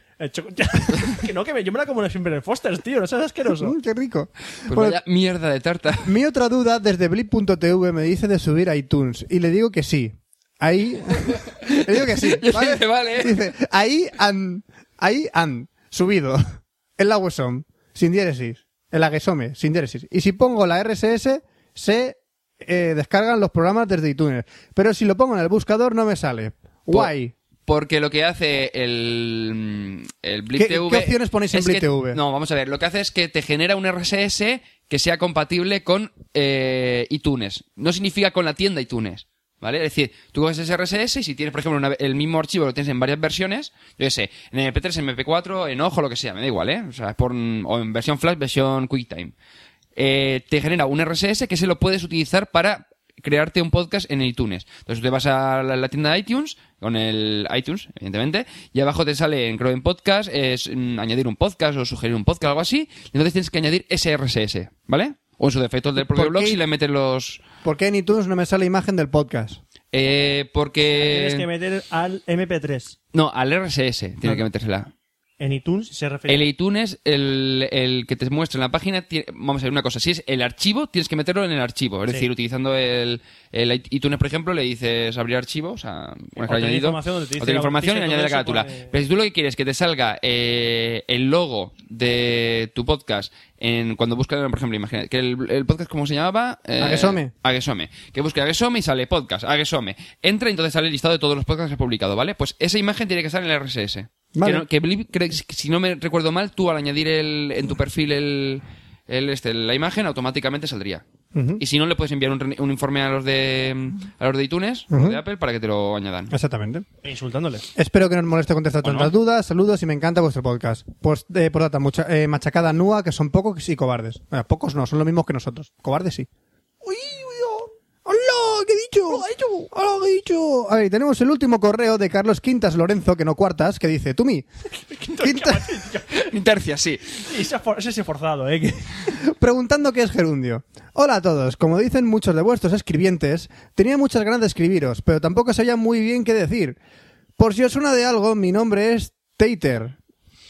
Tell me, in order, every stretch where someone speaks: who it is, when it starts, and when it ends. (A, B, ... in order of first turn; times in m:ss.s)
0:00.2-0:03.8 A
0:03.6-0:05.0 B
0:04.7-0:06.1 C
0:06.0-0:27.3 B
0:11.5-0:13.4 C
0:27.7-0:49.3 C
0:30.5-0:32.2 B
0:50.0-1:07.4 C
1:06.0-1:06.6 B
1:07.6-1:09.6 B
1:09.9-1:11.4 C
1:10.9-1:13.0 A
1:13.1-1:14.9 C
1:15.4-1:16.5 A
1:16.3-1:51.0 C
1:26.4-1:28.9 A
1:36.8-1:37.3 B
1:44.3-1:44.6 B
1:51.3-1:51.6 B
1:51.6-1:56.3 C
1:54.9-1:55.2 B
1:56.3-1:56.8 B
1:57.0-1:57.7 A
1:57.8-2:06.3 B
1:58.8-1:59.1 C
2:06.9-2:07.6 A
2:08.0-2:14.5 B
2:14.9-2:16.3 A
2:15.2-2:15.8 B
2:16.1-2:17.1 C
2:17.2-2:19.2 A
2:19.2-2:26.8 B
2:27.4-2:30.0 B